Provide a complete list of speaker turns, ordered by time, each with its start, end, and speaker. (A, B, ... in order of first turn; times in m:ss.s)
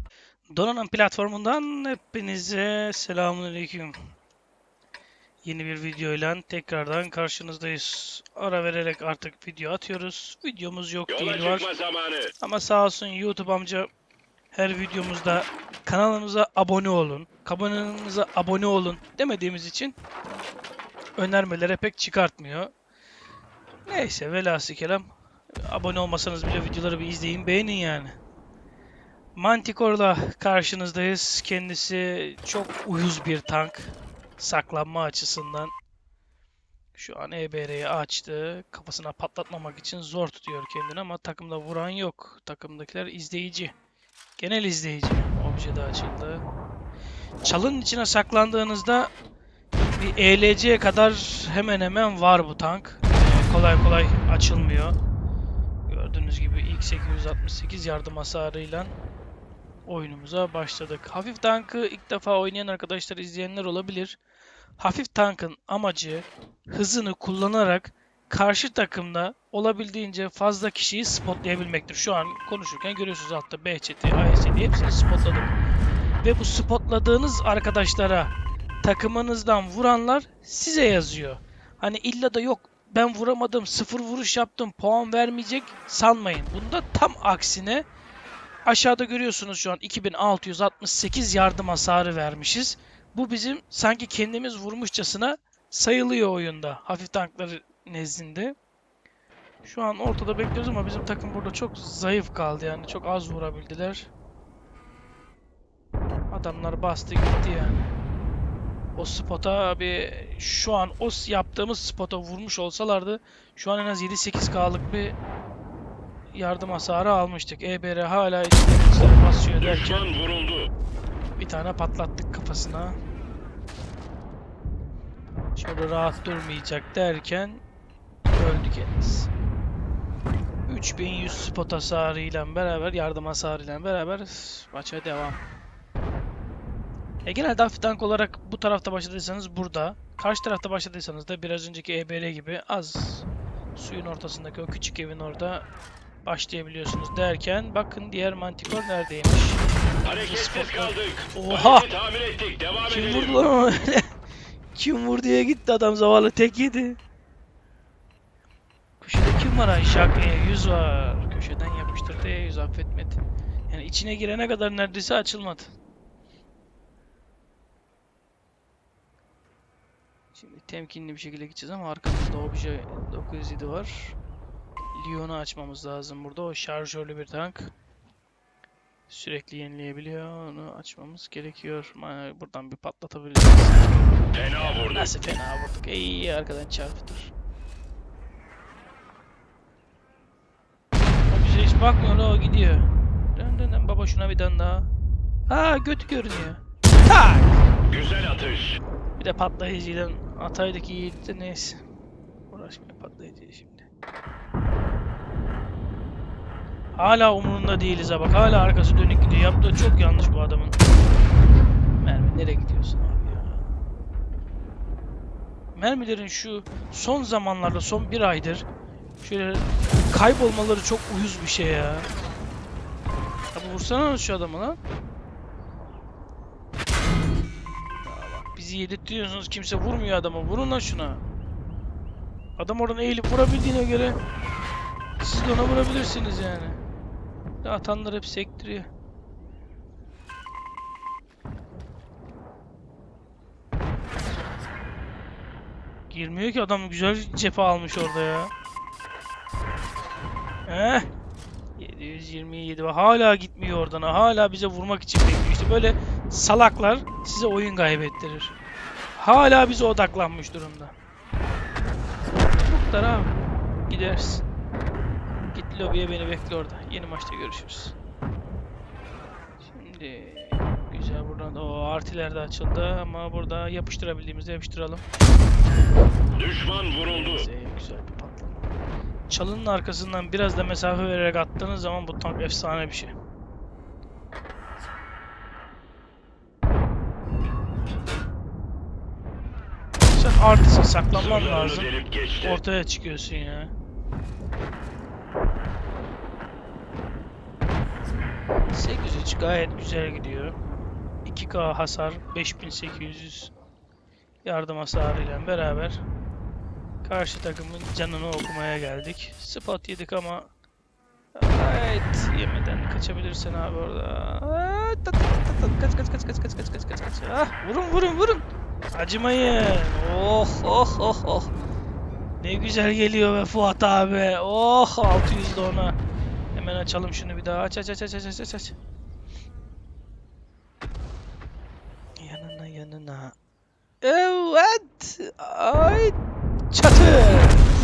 0:00.5-0:04.0 A
0:05.4-0:11.7 A
0:11.1-0:12.3 B
0:12.4-0:13.9 A
0:14.5-0:20.0 A
0:21.2-0:22.7 A
0:23.9-0:25.1 A
0:25.6-0:28.2 A
0:29.4-0:35.8 A
0:37.0-0:43.7 A
0:44.4-0:46.5 A
0:47.4-0:49.1 A
0:50.0-0:55.0 A
0:55.9-0:59.0 A
0:59.9-1:04.2 A
1:04.8-1:15.6 A
1:16.2-1:18.3 A
1:18.8-1:27.8 A
1:28.6-1:38.6 A
1:39.6-1:44.1 A
1:46.3-1:47.9 A
1:49.0-1:55.2 A
1:56.3-2:00.1 A
1:59.6-2:00.7 B
2:01.4-2:03.0 A
2:05.6-2:07.6 A
2:08.3-2:09.3 A
2:10.7-2:15.4 A
2:17.2-2:25.7 A
2:26.2-2:31.9 A
2:30.0-2:33.3 B
2:32.9-2:34.1 A
2:34.7-2:37.0 A
2:39.0-2:45.7 A
2:50.3-2:54.2 A
2:54.9-2:57.7 A
2:59.1-3:04.0 A
3:04.3-3:05.1 B
3:04.5-3:07.3 A
3:11.3-3:14.9 A
3:15.5-3:17.7 A
3:17.9-3:18.8 B
3:19.2-3:21.8 A
3:22.5-3:23.9 A
3:27.0-3:30.8 A
3:32.0-3:33.6 A
3:35.8-3:38.7 A
3:39.2-3:42.1 A
3:43.5-3:44.8 A
3:48.0-3:51.2 A
3:52.6-3:54.2 A
3:55.2-3:56.8 A
3:57.6-3:58.9 A
4:06.1-4:08.5 A
4:10.7-4:11.1 A
4:11.8-4:18.5 A
4:19.2-4:20.9 A
4:22.6-4:23.4 A
4:23.9-4:24.4 A
4:25.5-4:28.0 A
4:29.6-4:35.0 A
4:36.4-4:37.4 B
4:36.6-4:38.6 A
4:39.3-4:43.1 A
4:50.1-4:53.7 A
4:51.1-4:52.6 B
4:58.7-5:00.6 A
5:01.2-5:03.5 A
5:04.4-5:06.0 A
5:07.0-5:10.5 A
5:11.4-5:21.5 A
5:22.4-5:26.0 A
5:26.5-5:28.8 A
5:32.2-5:33.3 A
5:34.0-5:36.2 A
5:36.7-5:37.7 A